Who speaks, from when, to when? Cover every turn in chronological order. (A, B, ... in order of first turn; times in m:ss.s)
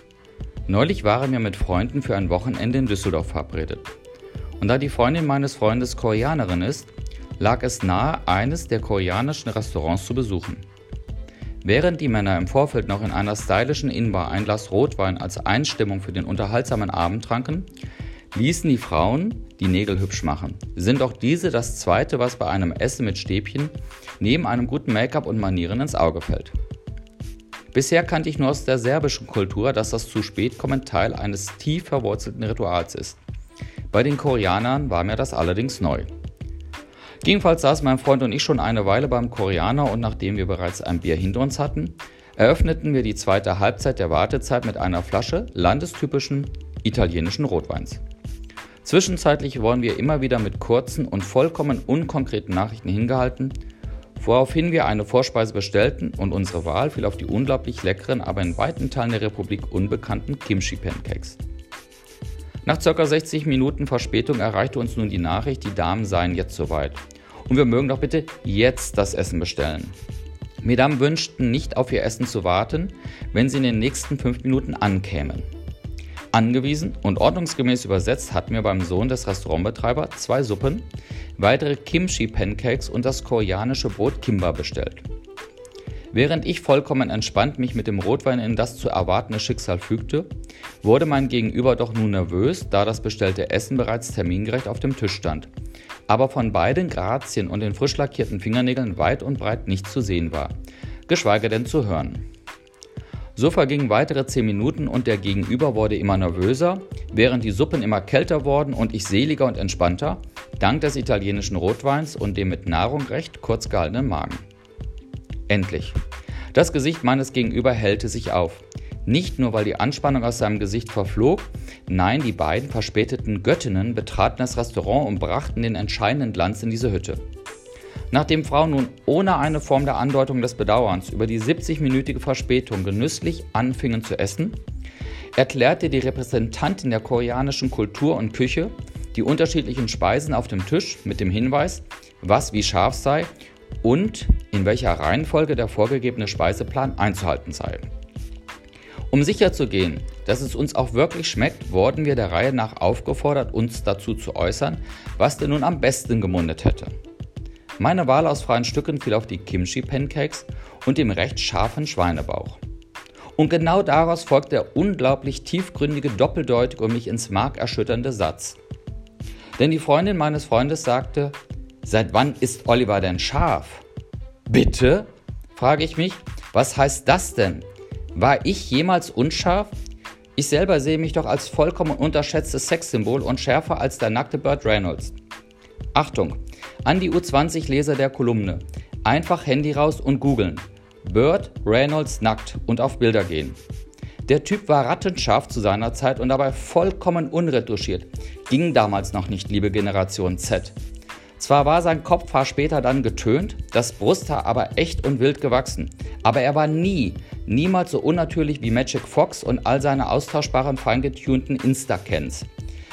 0:00.7-0:03.9 A
0:04.6-0:10.6 A
0:11.6-0:17.6 A
0:18.3-0:26.5 A
0:27.7-0:33.2 A
0:33.9-0:36.1 A
0:37.2-0:48.0 A
0:48.8-0:53.6 A
0:54.2-1:01.4 A
1:02.6-1:09.9 A
1:10.6-1:15.4 A
1:16.3-1:20.8 A
1:21.4-1:25.0 A
1:26.1-1:30.3 A
1:30.8-1:35.5 A
1:36.1-1:40.5 A
1:41.1-1:42.2 A
1:43.4-1:54.4 A
1:55.5-1:56.0 A
1:56.5-2:07.2 A
2:08.1-2:14.6 A
2:15.4-2:23.3 A
2:23.8-2:27.9 A
2:29.1-2:36.9 A
2:37.8-2:42.6 A
2:43.4-2:48.6 A
2:49.6-2:53.8 A
2:54.5-2:59.7 A
3:00.4-3:05.1 A
3:05.9-3:13.6 A
3:14.2-3:20.7 A
3:21.4-3:32.5 A